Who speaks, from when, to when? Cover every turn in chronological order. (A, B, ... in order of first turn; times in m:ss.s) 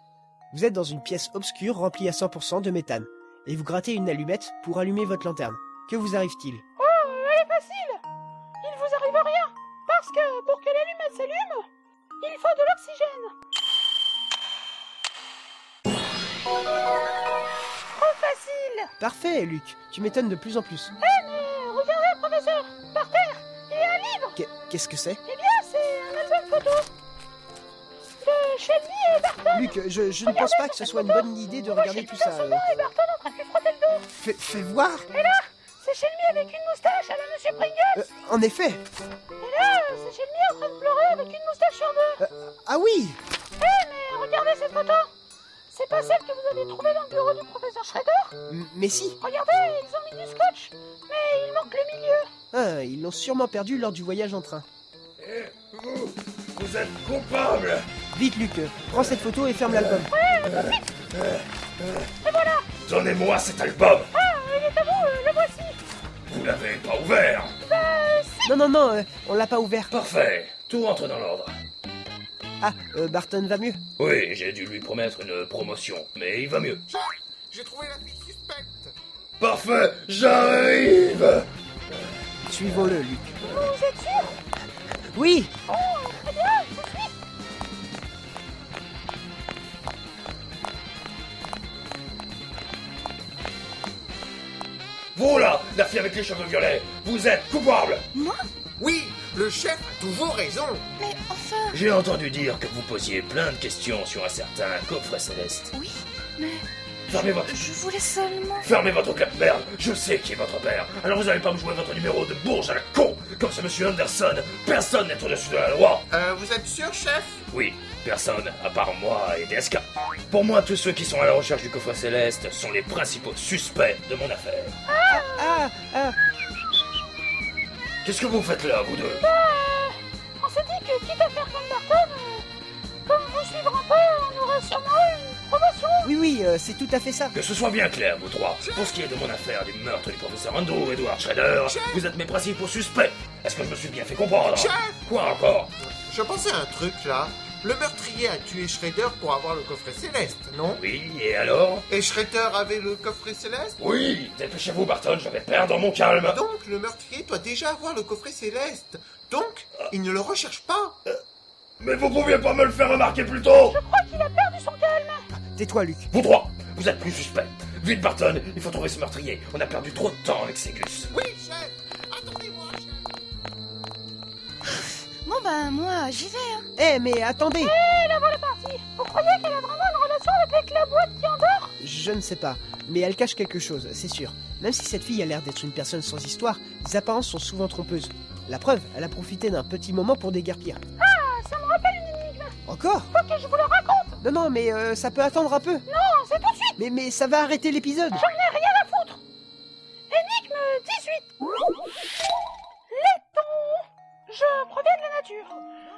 0:00.5-0:06.6 A
0:06.8-0:08.0 B
0:08.6-0:11.6 B
0:12.2-0:13.3 B
0:17.9-0:18.9 B
0:19.0-0:20.9 A
0:21.0-0:24.4 B
0:24.4-0:25.2 A
0:25.2-0:26.9 B
0:28.2-0:29.6 B
0:29.5-0:32.7 A
0:30.3-0:34.1 B
0:34.1-0:35.1 A
0:35.1-0:38.1 B
0:37.9-0:38.8 A
0:39.4-0:42.2 B
0:42.2-0:43.2 A
0:43.6-0:45.1 B
0:45.7-0:48.4 B
0:48.5-0:49.2 A
0:49.2-0:52.3 B
0:52.5-0:54.6 A
0:55.2-0:57.9 C
0:58.1-1:00.1 A
1:00.1-1:00.5 B
1:00.4-1:02.0 C
1:02.2-1:02.7 B
1:02.8-1:04.1 C
1:04.1-1:05.8 B
1:06.3-1:07.5 C
1:07.6-1:08.5 B
1:08.4-1:09.9 A
1:09.9-1:11.5 C
1:12.6-1:13.8 A
1:14.0-1:16.8 C
1:16.9-1:18.9 D
1:19.4-1:21.4 C
1:22.5-1:23.4 A
1:23.4-1:24.3 B
1:25.1-1:25.5 A
1:25.7-1:27.1 B
1:35.1-1:38.1 C
1:38.8-1:40.9 D
1:41.0-1:41.7 E
1:41.7-1:45.7 C
1:45.7-1:46.6 E
1:47.1-1:47.8 C
1:47.5-1:48.6 E
1:48.6-1:56.0 C
1:56.1-1:57.4 D
1:57.5-2:04.8 C
2:04.9-2:05.6 B
2:05.1-2:06.2 A
2:08.0-2:09.2 C
2:09.2-2:12.5 B
2:13.1-2:16.1 B
2:16.0-2:17.4 A
2:17.3-2:25.7 C
2:18.6-2:18.9 D
2:21.6-2:22.0 D
2:24.4-2:25.0 D
2:25.8-2:30.8 D
2:30.7-2:31.8 C
2:31.9-2:33.8 D
2:33.8-2:36.4 C
2:36.2-2:41.0 D
2:41.8-2:43.8 C
2:43.7-2:45.3 B
2:45.3-2:46.1 A
2:46.1-2:51.1 C
2:51.1-2:53.2 D
2:55.2-2:56.6 E
2:56.8-2:57.8 A
2:57.6-3:01.7 B
3:01.8-3:10.8 A
3:11.0-3:12.6 B
3:12.6-3:13.1 A
3:13.1-3:14.2 B
3:14.2-3:15.9 A
3:15.9-3:16.8 B
3:16.8-3:18.2 A
3:18.2-3:19.2 B
3:20.1-3:21.3 B
3:22.9-3:25.6 B